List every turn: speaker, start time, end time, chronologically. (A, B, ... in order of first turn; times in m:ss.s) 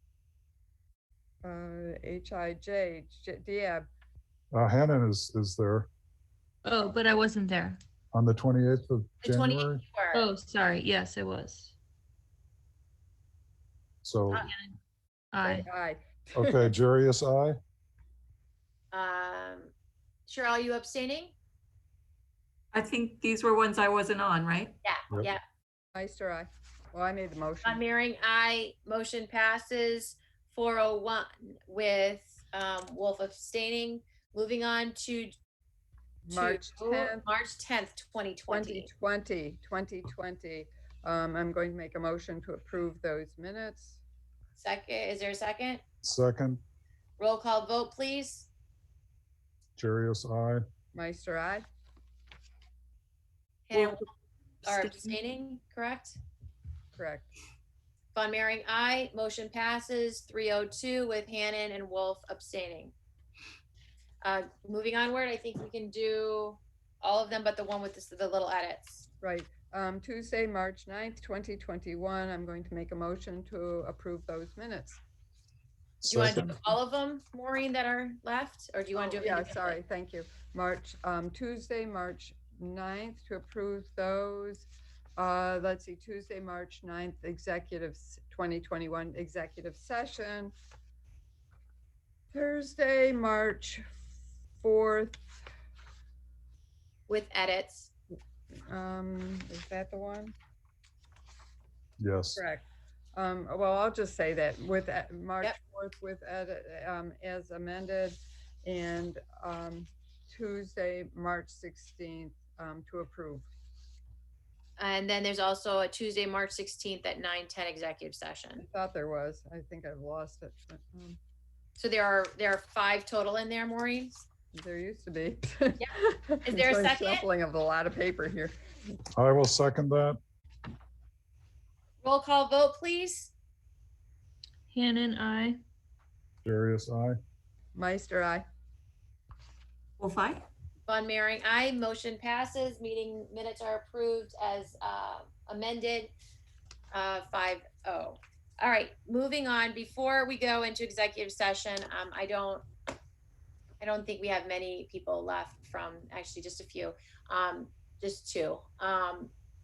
0:01.4-0:03.8 A
0:04.5-0:05.9 B
0:06.6-0:07.8 C
0:08.1-0:09.8 B
0:09.2-0:10.2 D
0:10.1-0:11.7 C
0:14.0-0:14.4 B
0:14.3-0:14.7 C
0:15.3-0:15.7 C
0:15.4-0:16.7 A
0:16.3-0:17.6 B
0:18.9-0:19.7 D
0:20.2-0:21.3 D
0:22.7-0:24.7 E
0:24.8-0:25.4 D
0:25.9-0:27.8 A
0:27.6-0:35.3 D
0:36.2-0:37.2 A
0:36.3-0:38.9 D
0:38.5-0:44.0 A
0:44.6-0:45.8 D
0:46.0-0:46.6 B
0:47.2-0:48.5 D
0:49.8-0:50.6 B
0:50.9-0:51.6 A
0:53.7-0:54.0 D
0:53.7-0:54.0 E
0:54.6-0:55.1 E
0:54.6-0:56.2 D
0:56.9-0:57.3 A
0:58.1-1:02.9 D
1:04.2-1:09.1 D
1:09.2-1:15.0 A
1:16.0-1:16.7 B
1:16.0-1:19.8 D
1:19.0-1:30.5 A
1:32.3-1:33.8 A
1:34.6-1:35.2 A
1:37.1-1:37.9 D
1:38.7-1:40.3 A
1:42.0-1:42.4 B
1:42.4-1:42.6 A
1:43.1-1:53.5 A
1:54.8-1:58.6 D
1:58.6-2:01.2 A
2:01.8-2:04.2 D
2:04.5-2:08.5 A
2:06.4-2:07.2 D
2:09.1-2:10.2 B
2:12.0-2:13.3 D
2:14.7-2:15.6 C
2:16.4-2:17.1 B
2:17.7-2:18.4 A
2:20.0-2:20.4 E
2:20.9-2:26.1 D
2:26.9-2:32.6 D
2:33.8-2:39.3 D